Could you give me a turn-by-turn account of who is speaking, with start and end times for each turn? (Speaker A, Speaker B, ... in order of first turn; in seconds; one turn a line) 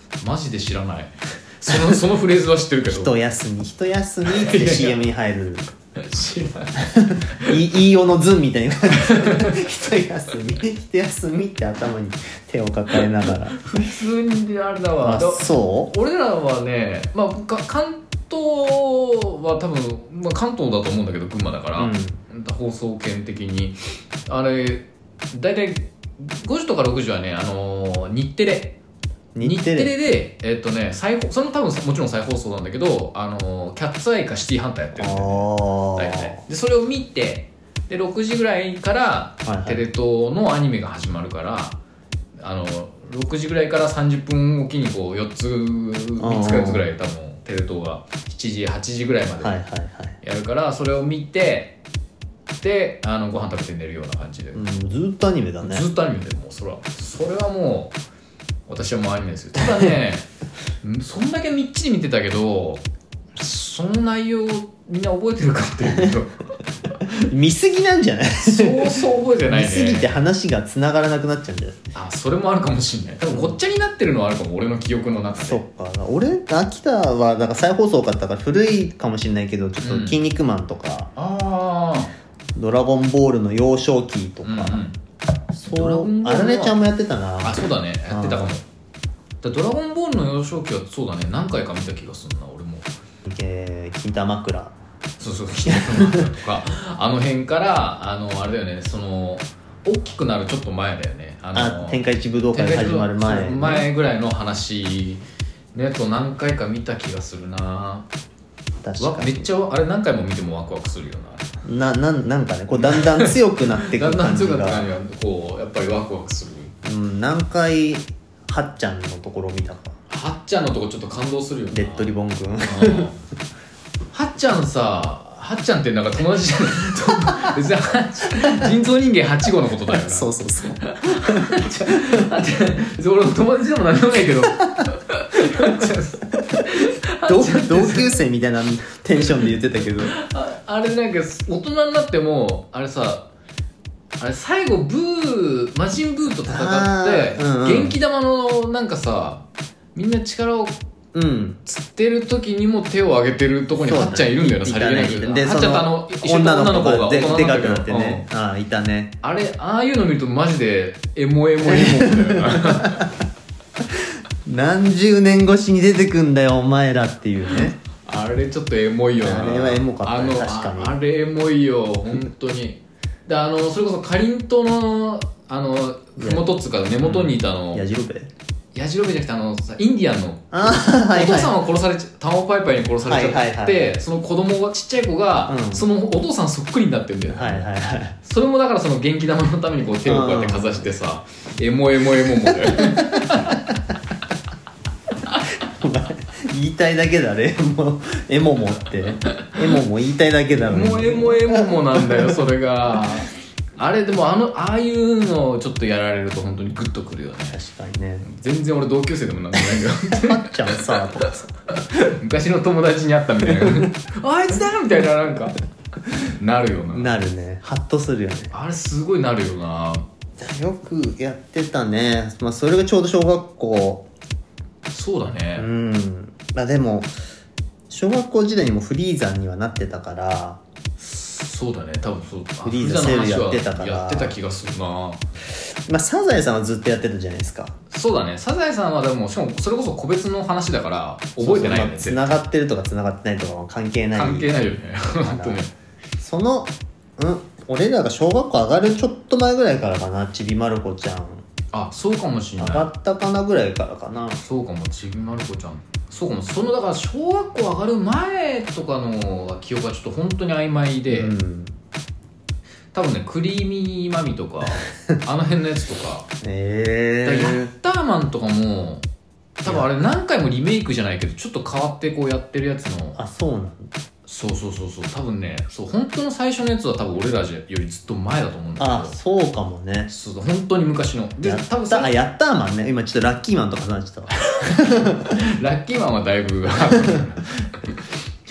Speaker A: 0.2-3.1
Speaker B: 1.7-2.0
Speaker B: 2.9-5.7
Speaker A: 4.3-5.0
Speaker A: 6.0-7.6
Speaker B: 6.9-13.6
Speaker A: 8.9-9.5
Speaker A: 13.3-23.8
Speaker B: 15.0-15.9
Speaker B: 21.8-22.2
Speaker A: 24.3-28.8
Speaker B: 29.4-29.9
Speaker A: 29.4-41.8
Speaker B: 35.0-36.4
Speaker B: 39.5-39.8
Speaker A: 42.4-49.6
Speaker B: 46.2-46.9
Speaker B: 49.4-50.2
Speaker A: 50.2-51.8
Speaker A: 52.6-54.7
Speaker B: 54.5-55.9
Speaker A: 55.6-58.0
Speaker A: 58.7-60.3
Speaker A: 60.8-62.8
Speaker A: 63.4-66.4
Speaker B: 67.0-71.8
Speaker A: 68.4-70.2
Speaker A: 72.0-75.6
Speaker B: 73.3-73.5
Speaker B: 75.4-81.1
Speaker A: 79.8-80.2
Speaker A: 81.2-82.1
Speaker B: 82.6-84.8
Speaker A: 84.4-85.0
Speaker A: 85.6-86.8
Speaker B: 85.6-88.5
Speaker A: 87.4-88.7
Speaker A: 89.4-92.9
Speaker B: 93.3-94.7
Speaker A: 95.2-102.0
Speaker B: 95.7-96.3
Speaker B: 101.5-103.9
Speaker A: 102.5-105.2
Speaker A: 105.7-108.1
Speaker B: 108.8-109.5
Speaker A: 109.0-111.5
Speaker B: 111.6-114.9
Speaker A: 112.8-116.7
Speaker B: 116.8-120.0
Speaker A: 120.1-123.2
Speaker B: 121.7-123.1
Speaker A: 124.1-130.3
Speaker B: 128.4-128.7
Speaker B: 129.9-132.3
Speaker A: 130.8-138.2
Speaker B: 135.5-135.9
Speaker B: 137.2-140.2
Speaker A: 140.1-143.3
Speaker A: 144.2-149.4
Speaker B: 146.5-147.9
Speaker A: 149.9-150.8
Speaker B: 151.1-151.6
Speaker A: 151.7-158.3
Speaker B: 153.8-159.1
Speaker A: 159.2-163.1
Speaker B: 161.6-163.2
Speaker B: 163.9-167.8
Speaker A: 168.0-177.8
Speaker B: 169.2-170.9
Speaker B: 176.2-176.4
Speaker B: 177.0-178.3
Speaker A: 178.8-187.7
Speaker B: 180.5-181.5
Speaker B: 183.0-184.0
Speaker B: 185.5-185.9
Speaker B: 187.3-188.2
Speaker A: 188.2-193.6
Speaker B: 190.1-190.9
Speaker B: 192.4-193.8
Speaker B: 195.6-202.3
Speaker A: 200.6-207.6
Speaker B: 207.5-208.3
Speaker A: 208.2-211.0
Speaker B: 209.6-211.5
Speaker A: 211.8-215.6
Speaker B: 213.4-213.9
Speaker A: 216.1-217.1
Speaker B: 216.9-218.5
Speaker A: 218.5-220.1
Speaker B: 220.4-224.1
Speaker A: 224.9-225.7
Speaker B: 225.6-227.1
Speaker B: 227.9-230.6
Speaker A: 231.0-235.2
Speaker B: 232.6-234.4
Speaker B: 235.9-237.8
Speaker A: 237.9-242.4
Speaker B: 241.4-244.5
Speaker A: 244.2-245.7
Speaker B: 245.2-245.6
Speaker B: 246.2-251.4
Speaker A: 251.7-252.9
Speaker B: 252.6-254.4
Speaker A: 254.4-261.3
Speaker B: 261.1-261.8
Speaker A: 262.9-266.3
Speaker B: 266.4-267.7
Speaker A: 267.2-269.1
Speaker A: 269.6-273.2
Speaker B: 273.2-273.9
Speaker A: 274.3-279.2
Speaker B: 278.8-280.1
Speaker A: 280.1-282.1
Speaker B: 281.4-285.4
Speaker A: 284.5-288.0
Speaker B: 286.8-287.2